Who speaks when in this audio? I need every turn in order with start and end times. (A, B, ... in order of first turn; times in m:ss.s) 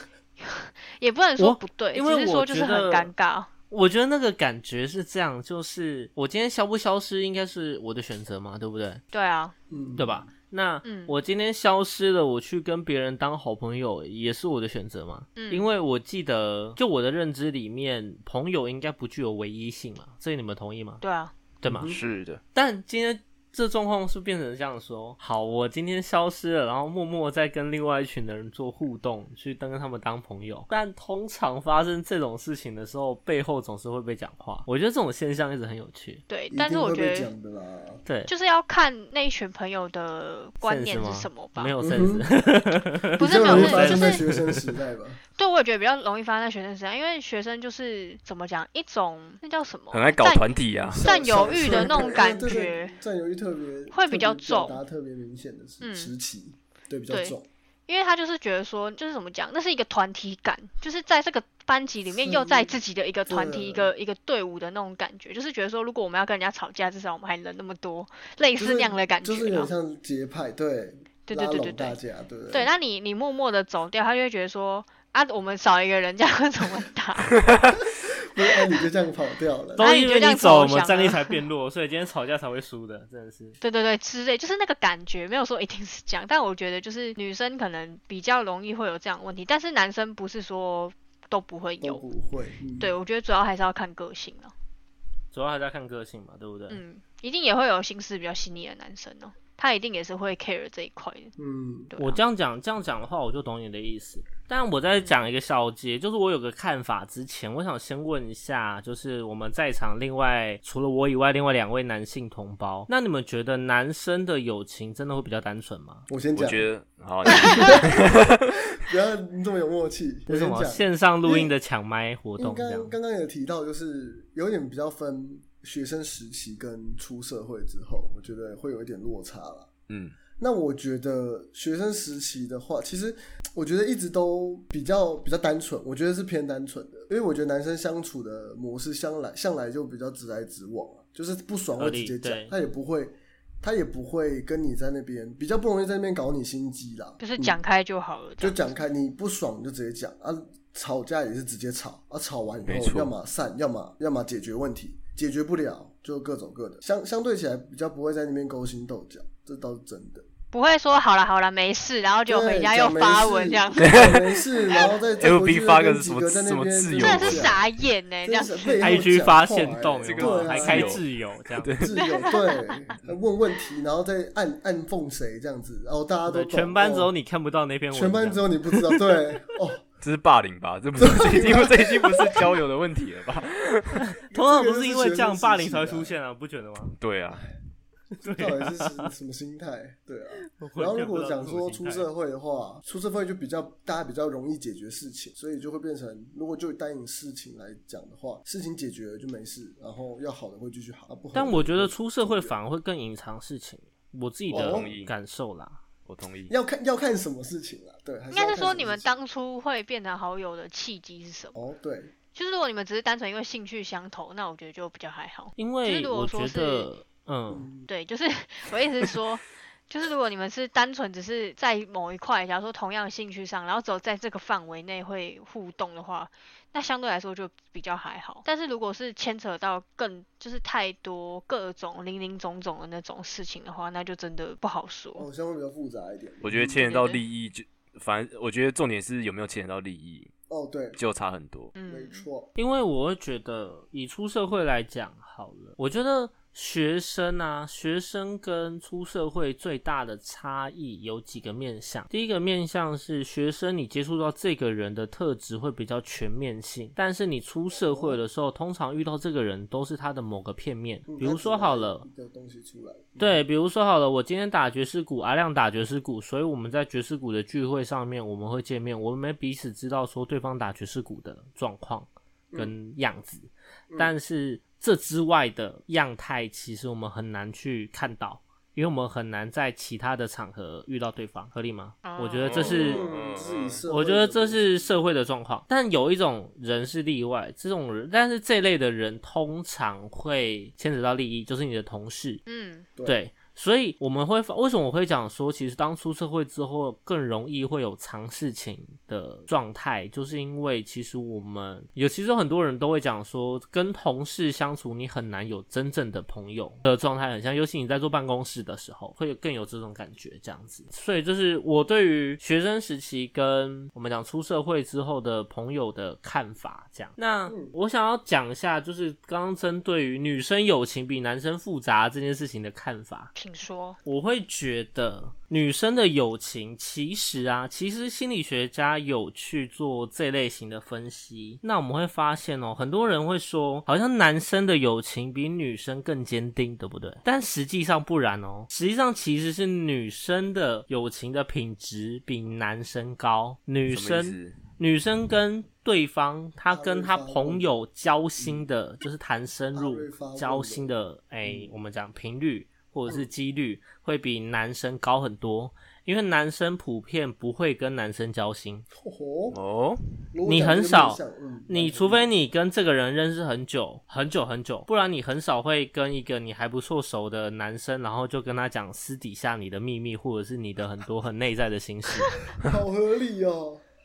0:00.4-0:03.5 A
0:01.4-0:03.1 B
0:03.7-0:09.0 B
0:09.1-0:09.5 A
0:09.7-0:10.2 C
0:10.0-0:21.0 B
0:10.8-0:11.1 A
0:15.4-0:15.7 A
0:21.0-0:21.3 A
0:21.6-0:22.0 B
0:21.6-0:22.0 C
0:21.9-0:22.4 D
0:22.5-0:36.2 B
0:36.3-0:37.3 A
0:36.5-0:38.0 C
0:38.0-0:38.3 B
0:38.3-0:41.7 A
0:40.6-0:44.7 B
0:41.8-0:42.3 C
0:43.2-0:45.2 C
0:43.2-0:44.2 A
0:45.4-0:53.0 A
0:49.9-0:51.0 D
0:50.9-0:57.4 C
0:51.6-0:51.9 D
0:53.9-0:54.8 A
0:55.8-0:56.1 A
0:57.1-0:57.4 A
0:57.9-1:09.7 A
1:02.1-1:02.7 C
1:03.2-1:03.9 C
1:08.6-1:12.7 C
1:11.3-1:12.0 A
1:12.5-1:17.5 A
1:18.3-1:19.9 C
1:19.8-1:21.4 A
1:19.8-1:23.6 B
1:23.6-1:32.0 A
1:31.8-1:32.9 C
1:32.8-1:34.5 A
1:35.3-1:36.8 B
1:36.7-1:41.3 A
1:41.4-1:41.9 C
1:41.9-1:42.2 A
1:42.0-1:56.1 B
1:56.1-1:56.7 C
1:56.3-1:58.6 D
1:57.3-2:01.5 C
2:00.3-2:02.9 B
2:02.4-2:09.7 C
2:09.9-2:10.2 D
2:10.4-2:27.6 C
2:21.8-2:22.5 B
2:27.2-2:28.7 A
2:28.4-2:40.2 C
2:32.7-2:33.1 D
2:40.5-2:44.9 A
2:42.3-2:47.6 C
2:43.8-2:44.2 D
2:45.2-2:47.6 D
2:47.0-2:49.0 A
2:48.2-2:51.0 C
2:48.8-2:51.7 B
2:50.0-2:51.0 D
2:51.6-2:52.0 D
2:51.8-2:57.1 C
2:52.0-2:52.7 A
2:56.3-2:59.0 B
2:57.9-2:59.8 C
3:00.0-3:04.0 D
3:01.0-3:02.5 C
3:04.2-3:06.9 B
3:04.2-3:06.1 C
3:07.0-3:07.5 D
3:08.2-3:09.1 B
3:08.2-3:22.5 C
3:10.5-3:12.1 B
3:21.3-3:25.8 B
3:24.5-3:24.9 C
3:24.5-3:25.1 D
3:26.0-3:26.5 D
3:26.5-3:29.2 C
3:28.3-3:31.6 A
3:31.5-3:32.1 C
3:32.3-3:36.9 A
3:35.6-3:37.7 B
3:37.5-3:37.9 C
3:37.9-3:55.3 A
3:55.2-3:56.8 C
3:56.4-4:00.3 D
3:56.8-3:57.2 A
4:00.5-4:01.0 C
4:01.0-4:01.7 D
4:01.7-4:02.2 A
4:01.9-4:02.5 C
4:02.6-4:22.0 B
4:17.7-4:18.2 C
4:21.1-4:23.4 C
4:23.2-4:43.0 B
4:42.0-4:43.0 A
4:42.4-4:43.8 D
4:42.6-4:44.7 C
4:43.9-4:52.4 B
4:52.5-4:52.9 A
4:53.0-5:23.3 B
5:17.5-5:17.7 C
5:23.3-5:24.0 A
5:24.0-5:58.8 B
5:43.9-5:44.6 D
5:46.7-5:47.7 C
5:49.7-5:50.9 C
5:51.4-5:51.7 C
5:58.9-5:59.6 C
5:59.5-6:00.0 D
6:00.3-6:02.3 C
6:00.4-6:12.3 B
6:12.5-6:13.8 C